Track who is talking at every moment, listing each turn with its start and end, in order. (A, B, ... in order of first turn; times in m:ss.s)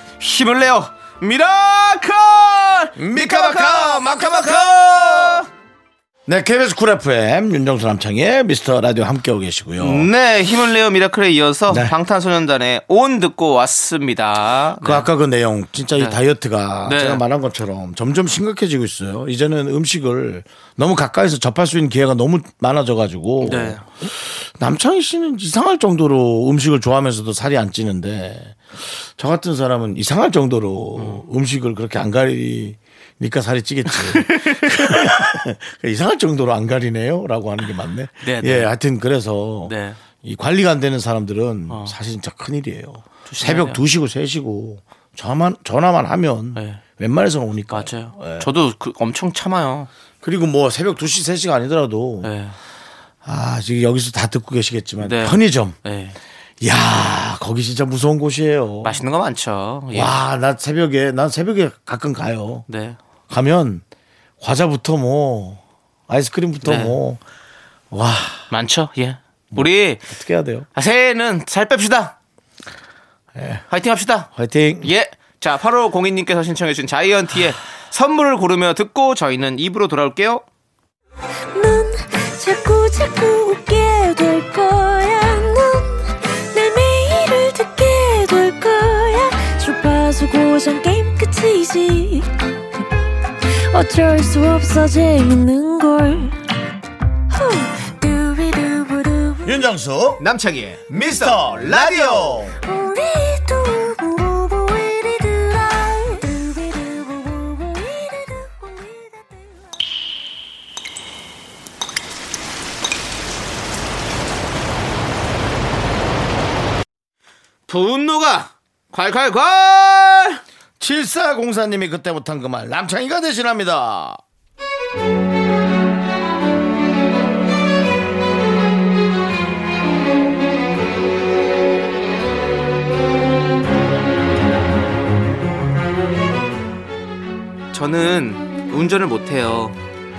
0:00.2-0:05.5 A
0:03.0-0:05.4 B
0:06.3-0:10.1 B
0:09.8-0:15.1 A
0:11.7-0:11.9 B
0:14.8-0:48.5 B
0:16.9-0:17.2 A
0:23.4-0:23.8 A
0:31.0-0:31.2 A
0:33.9-0:35.1 A
0:38.2-0:38.7 A
0:39.7-0:40.0 A
0:41.7-0:42.0 A
0:43.3-0:43.8 A
0:47.7-0:49.9 A
0:50.2-0:52.3 B
0:52.2-0:52.6 A
0:53.2-0:55.8 B
0:55.0-0:56.2 A
0:56.6-0:59.0 B
0:58.8-1:00.2 A
0:59.9-1:02.7 B
1:02.7-1:03.0 A
1:03.3-1:03.8 B
1:04.4-1:07.2 B
1:06.6-1:07.0 A
1:07.9-1:08.5 B
1:08.5-1:10.0 A
1:09.5-1:10.7 B
1:10.8-1:12.2 A
1:13.4-1:13.6 B
1:13.7-1:14.3 A
1:14.3-1:14.9 B
1:14.8-1:20.4 A
1:21.5-1:32.3 C
1:33.7-1:36.4 C
1:37.3-1:39.6 C
1:39.4-1:40.2 B
1:40.2-1:42.4 A
1:40.9-1:42.6 B
1:42.6-1:49.6 C
1:57.7-2:00.4 A
2:00.8-2:04.2 B
2:17.7-2:19.8 A